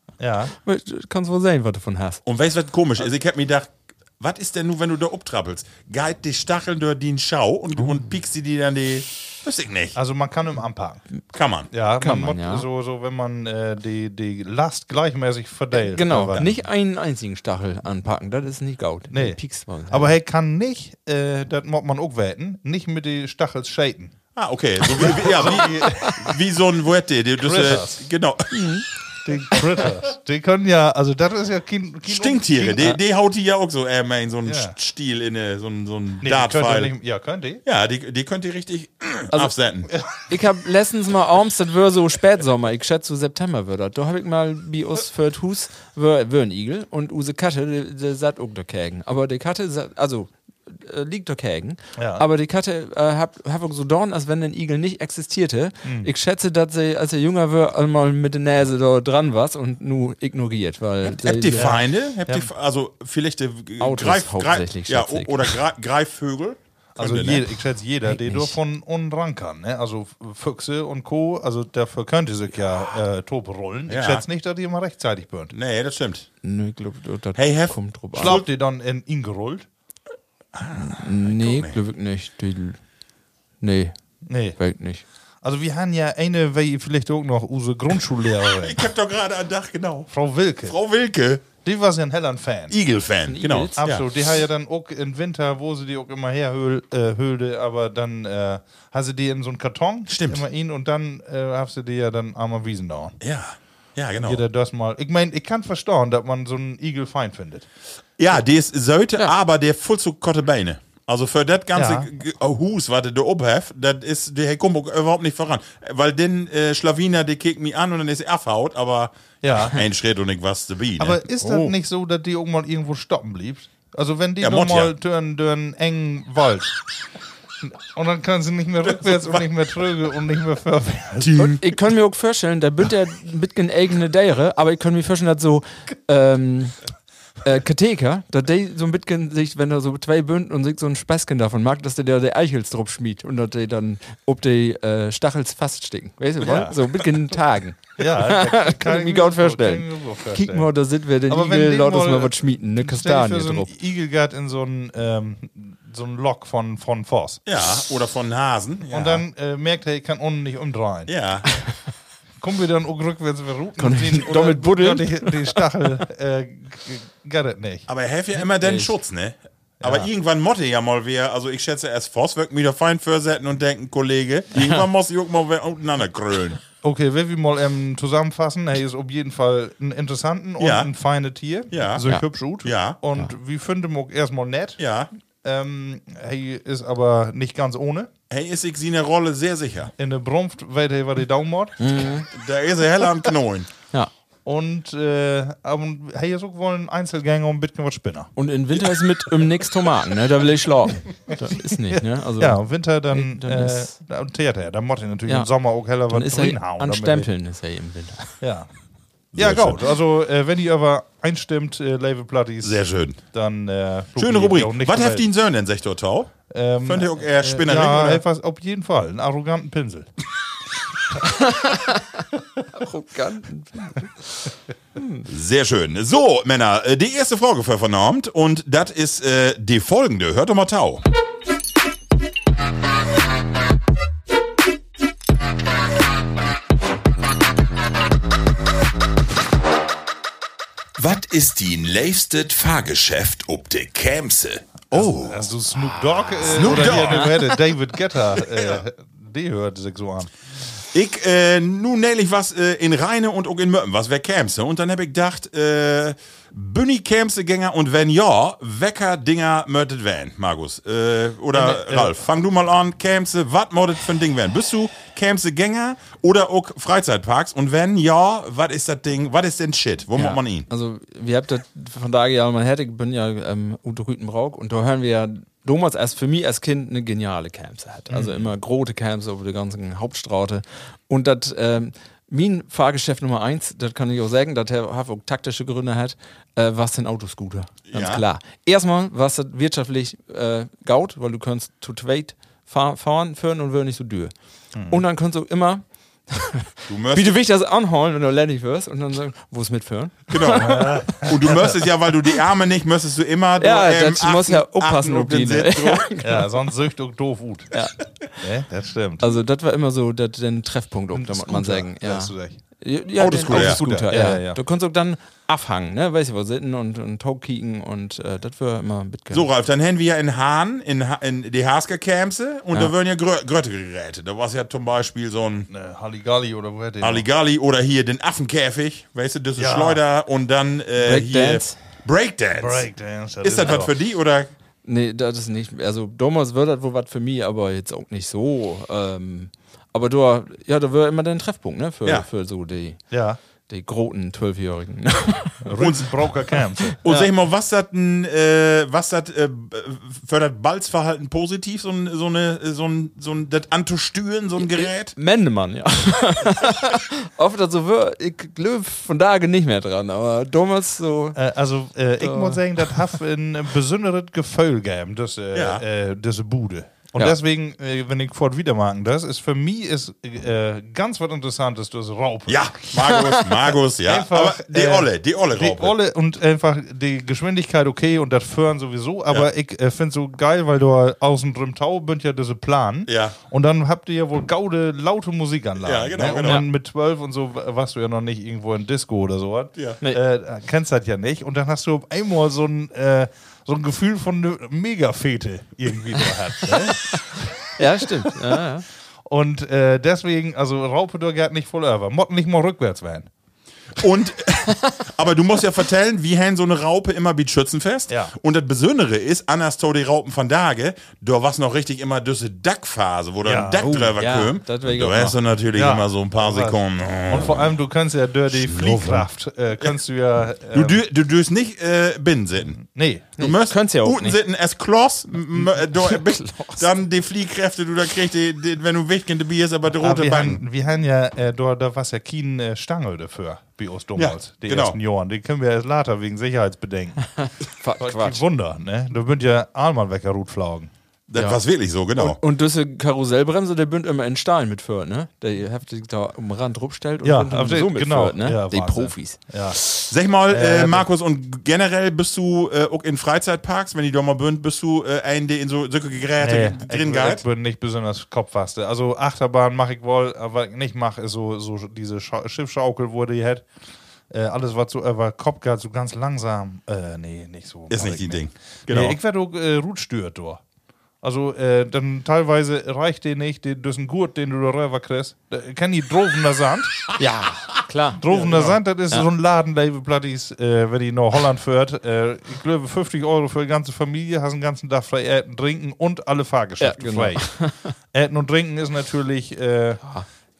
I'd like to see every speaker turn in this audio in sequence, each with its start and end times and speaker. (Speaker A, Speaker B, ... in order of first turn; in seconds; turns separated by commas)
Speaker A: 0.2-0.5, Speaker B: 0.5-2.2, Speaker C: 2.2-9.9, Speaker A: 9.9-11.0, Speaker C: 11.3-11.7, Speaker A: 11.7-16.5, Speaker B: 12.0-12.7, Speaker B: 15.7-20.1, Speaker A: 19.1-24.1, Speaker C: 24.3-28.7, Speaker A: 24.9-26.3, Speaker B: 25.8-26.1, Speaker A: 27.4-28.0, Speaker B: 28.5-28.9, Speaker A: 29.2-33.0, Speaker C: 32.1-36.9, Speaker A: 34.5-34.7, Speaker A: 36.2-37.6, Speaker C: 37.6-39.9, Speaker B: 39.3-61.8, Speaker A: 52.0-52.2, Speaker A: 55.8-56.1, Speaker C: 61.0-67.5, Speaker A: 61.5-62.5, Speaker B: 63.8-65.6, Speaker A: 67.0-75.5, Speaker B: 68.1-68.5, Speaker C: 73.9-74.2, Speaker C: 75.5-76.3, Speaker B: 76.4-78.4, Speaker C: 77.3-78.4, Speaker A: 78.1-79.7, Speaker C: 80.5-81.8, Speaker B: 80.8-82.8, Speaker B: 83.6-83.9, Speaker A: 84.2-84.6, Speaker B: 84.6-85.0, Speaker A: 85.4-88.8, Speaker C: 88.5-90.1, Speaker A: 90.1-90.8, Speaker C: 90.6-91.4, Speaker A: 91.6-92.7, Speaker C: 92.7-94.0, Speaker B: 93.3-93.8, Speaker A: 93.8-103.2, Speaker C: 100.1-100.4, Speaker C: 103.2-104.4, Speaker A: 104.2-107.7, Speaker C: 108.2-121.7, Speaker A: 111.7-112.1, Speaker A: 119.4-119.8, Speaker A: 121.0-126.8, Speaker C: 124.4-124.9, Speaker A: 127.6-131.6, Speaker C: 129.0-129.4, Speaker C: 131.2-131.6, Speaker B: 131.6-136.8, Speaker B: 137.4-153.7, Speaker A: 146.4-146.8, Speaker A: 148.0-150.7, Speaker A: 151.3-157.4, Speaker C: 157.4-159.2, Speaker A: 158.9-161.1, Speaker C: 161.1-161.5, Speaker A: 162.4-167.8, Speaker B: 163.8-165.6, Speaker C: 167.9-176.6, Speaker B: 168.4-168.9, Speaker A: 169.8-170.1, Speaker B: 174.5-174.8, Speaker A: 176.8-184.8, Speaker C: 180.6-180.9, Speaker C: 181.7-182.0, Speaker C: 182.6-183.0, Speaker C: 184.8-185.1, Speaker A: 185.4-188.1, Speaker C: 188.3-189.9, Speaker A: 190.0-191.9, Speaker B: 191.8-192.3, Speaker C: 192.3-193.7, Speaker A: 194.4-198.3, Speaker B: 198.4-203.9, Speaker A: 201.9-207.3, Speaker B: 206.1-208.4, Speaker A: 208.4-208.7, Speaker A: 209.3-215.2, Speaker C: 209.3-209.8, Speaker C: 212.6-213.2, Speaker C: 214.2-218.2, Speaker A: 216.5-220.1, Speaker B: 221.2-225.2, Speaker C: 225.2-231.0, Speaker C: 241.0-245.5, Speaker A: 244.9-250.3, Speaker B: 246.4-247.4, Speaker C: 246.4-247.4, Speaker C: 250.9-270.7, Speaker A: 261.5-262.1, Speaker B: 270.1-294.3, Speaker A: 278.1-278.4, Speaker C: 287.9-288.2, Speaker A: 294.7-295.0, Speaker B: 294.9-301.0, Speaker C: 296.9-297.3, Speaker C: 300.3-306.1, Speaker A: 300.6-301.7, Speaker B: 303.6-306.5, Speaker A: 306.2-307.8, Speaker B: 307.7-308.0, Speaker A: 308.4-309.3, Speaker B: 309.2-319.5, Speaker A: 311.1-312.6, Speaker C: 313.2-313.8, Speaker A: 313.4-314.6, Speaker C: 319.3-325.7, Speaker A: 325.7-327.2, Speaker C: 327.0-332.9, Speaker A: 329.6-330.0, Speaker B: 331.0-331.8, Speaker A: 332.5-333.9, Speaker C: 333.4-334.5, Speaker B: 334.8-343.0, Speaker A: 343.1-343.4, Speaker B: 343.7-345.7, Speaker A: 345.6-347.0, Speaker C: 345.8-346.1, Speaker B: 346.9-347.2, Speaker C: 347.0-355.1, Speaker B: 354.6-361.4, Speaker A: 361.3-372.7, Speaker B: 362.2-363.0, Speaker C: 365.5-365.8, Speaker C: 372.5-375.9, Speaker B: 373.2-373.6, Speaker A: 374.0-398.4, Speaker C: 383.1-383.4, Speaker C: 385.8-386.6, Speaker B: 386.4-386.6, Speaker B: 397.8-398.9, Speaker A: 399.2-403.3, Speaker C: 403.9-417.7, Speaker A: 408.1-408.3, Speaker A: 413.4-414.1, Speaker B: 413.8-415.4, Speaker A: 415.7-421.0, Speaker C: 418.5-419.2, Speaker C: 420.7-422.8, Speaker A: 422.8-423.3, Speaker B: 423.4-424.4, Speaker C: 423.4-430.6, Speaker B: 425.6-426.9, Speaker A: 430.0-437.2, Speaker C: 434.1-435.0, Speaker B: 437.4-438.4, Speaker A: 438.0-440.9, Speaker C: 441.3-442.4, Speaker B: 441.3-441.6, Speaker B: 442.1-450.1, Speaker A: 447.2-449.8, Speaker C: 450.1-457.4, Speaker A: 450.5-451.0, Speaker A: 456.4-463.6, Speaker A: 464.3-470.6, Speaker C: 467.9-469.1, Speaker A: 471.2-477.1, Speaker B: 477.2-478.6, Speaker A: 478.2-487.5, Speaker C: 478.3-478.8, Speaker B: 486.8-487.9, Speaker A: 488.1-490.0